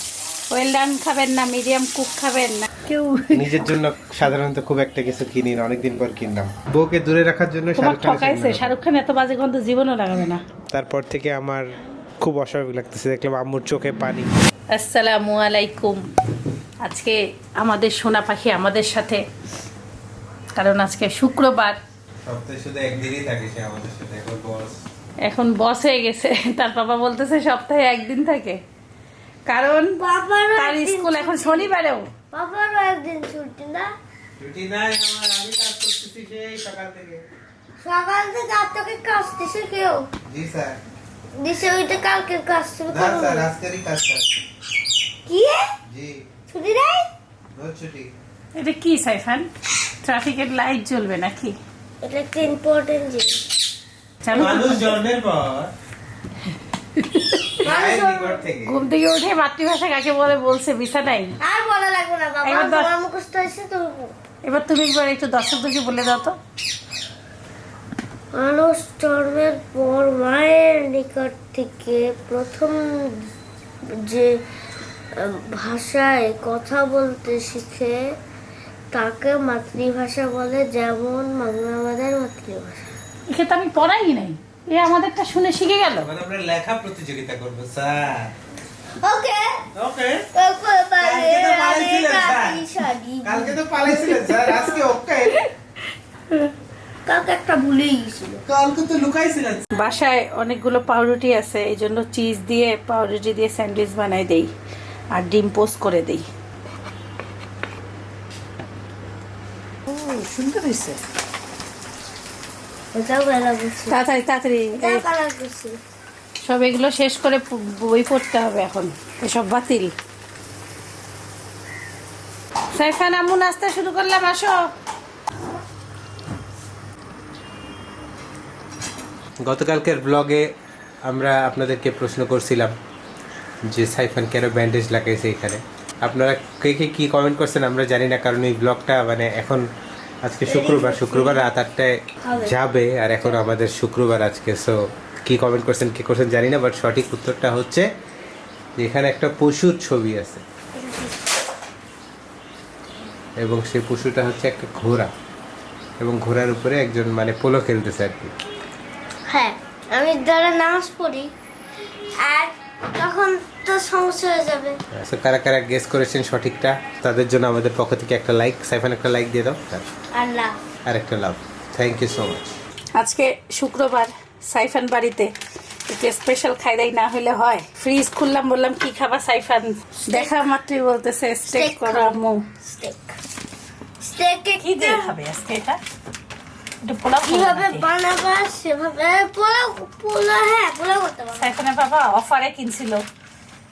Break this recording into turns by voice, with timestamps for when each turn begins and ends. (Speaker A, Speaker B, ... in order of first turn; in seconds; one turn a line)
Speaker A: 0.5-3.6
Speaker B: 3.3-8.8
Speaker A: 7.8-10.4
Speaker B: 10.7-14.4
Speaker A: 14.7-16.1
Speaker A: 16.8-19.2
Speaker A: 20.6-21.8
Speaker B: 22.2-24.8
Speaker A: 25.2-28.6
Speaker A: 29.5-30.0
Speaker C: 30.0-31.7
Speaker A: 30.6-32.1
Speaker C: 32.3-33.9
Speaker B: 34.4-37.2
Speaker C: 37.8-40.1
Speaker B: 40.3-40.8
Speaker C: 41.4-43.5
Speaker B: 42.9-44.2
Speaker C: 45.3-45.7
Speaker B: 45.9-46.2
Speaker C: 46.5-47.1
Speaker B: 47.5-48.1
Speaker A: 48.5-49.5
Speaker A: 50.0-51.6
Speaker C: 52.0-53.4
Speaker A: 54.2-54.9
Speaker B: 54.3-55.7
Speaker A: 56.9-57.6
Speaker C: 57.6-58.4
Speaker B: 57.6-58.8
Speaker A: 58.6-61.4
Speaker C: 61.4-64.1
Speaker A: 62.4-62.9
Speaker A: 64.4-66.3
Speaker C: 68.3-73.3
Speaker C: 73.8-74.4
Speaker C: 75.1-78.2
Speaker C: 78.9-82.8
Speaker A: 83.3-86.1
Speaker B: 86.0-88.3
Speaker C: 89.0-89.7
Speaker B: 89.7-90.3
Speaker C: 90.3-93.6
Speaker B: 91.0-92.6
Speaker B: 93.2-95.4
Speaker A: 94.3-94.6
Speaker C: 97.0-98.4
Speaker B: 98.5-99.7
Speaker A: 99.7-104.5
Speaker A: 105.1-106.2
Speaker A: 109.9-111.0
Speaker C: 112.9-114.0
Speaker A: 113.9-115.0
Speaker C: 114.8-115.8
Speaker A: 116.4-119.9
Speaker A: 122.7-124.7
Speaker B: 129.4-130.5
Speaker B: 131.0-132.7
Speaker B: 133.7-139.7
Speaker B: 140.2-147.9
Speaker C: 140.5-141.4
Speaker C: 142.2-142.5
Speaker B: 148.8-150.4
Speaker C: 150.8-151.1
Speaker B: 153.4-155.1
Speaker B: 156.0-158.3
Speaker C: 159.3-161.3
Speaker C: 162.2-164.8
Speaker B: 164.9-169.9
Speaker C: 170.1-170.6
Speaker B: 170.8-172.4
Speaker A: 172.9-175.3
Speaker A: 175.9-182.4
Speaker C: 180.1-180.5
Speaker C: 181.5-183.1
Speaker C: 184.0-185.1
Speaker A: 184.6-185.8
Speaker A: 186.8-187.8
Speaker C: 187.2-191.5
Speaker A: 191.4-193.0